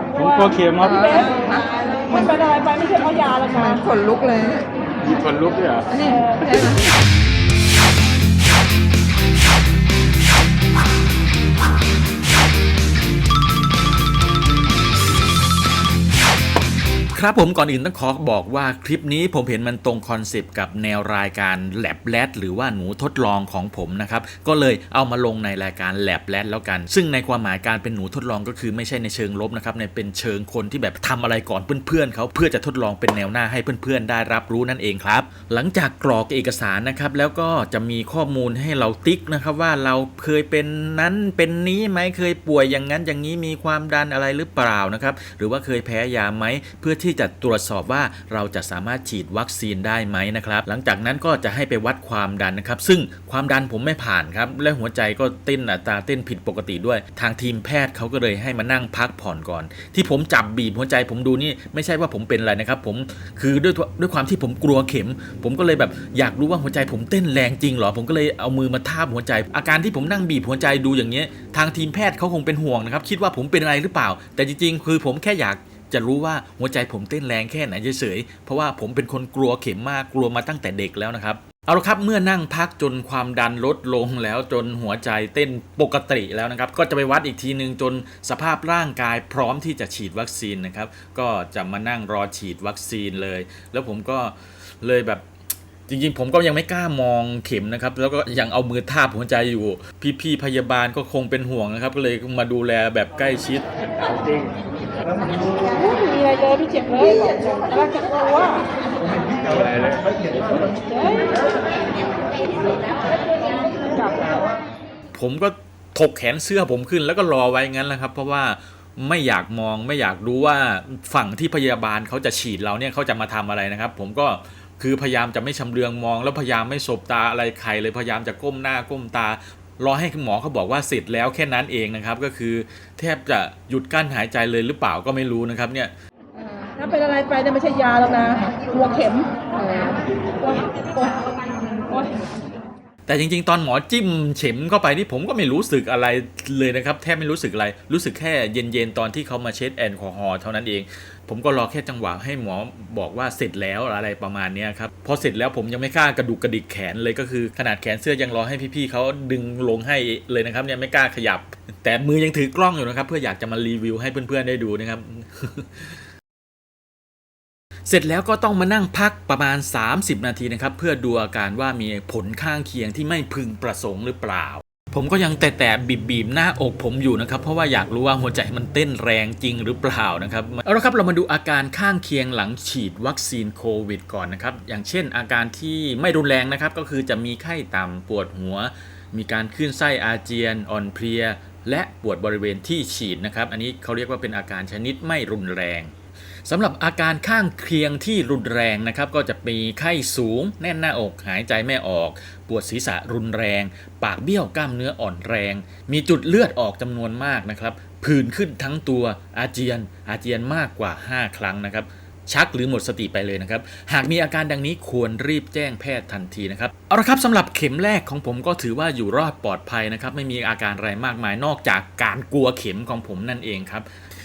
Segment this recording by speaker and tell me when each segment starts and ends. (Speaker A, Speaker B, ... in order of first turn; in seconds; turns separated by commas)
Speaker A: 0.1-1.1, Speaker B: 0.2-1.5, Speaker C: 0.8-2.2, Speaker B: 2.1-3.8, Speaker C: 3.8-4.7, Speaker A: 5.0-5.9, Speaker C: 5.9-6.8, Speaker B: 6.0-6.5, Speaker D: 17.1-95.2, Speaker D: 95.9-103.7, Speaker A: 104.0-104.5, Speaker B: 105.7-108.7, Speaker A: 109.5-110.1, Speaker B: 110.6-111.4, Speaker B: 113.8-114.3, Speaker D: 115.2-135.9, Speaker B: 136.4-139.5, Speaker B: 140.4-141.2, Speaker D: 143.1-166.0, Speaker D: 167.9-195.9, Speaker D: 196.4-223.9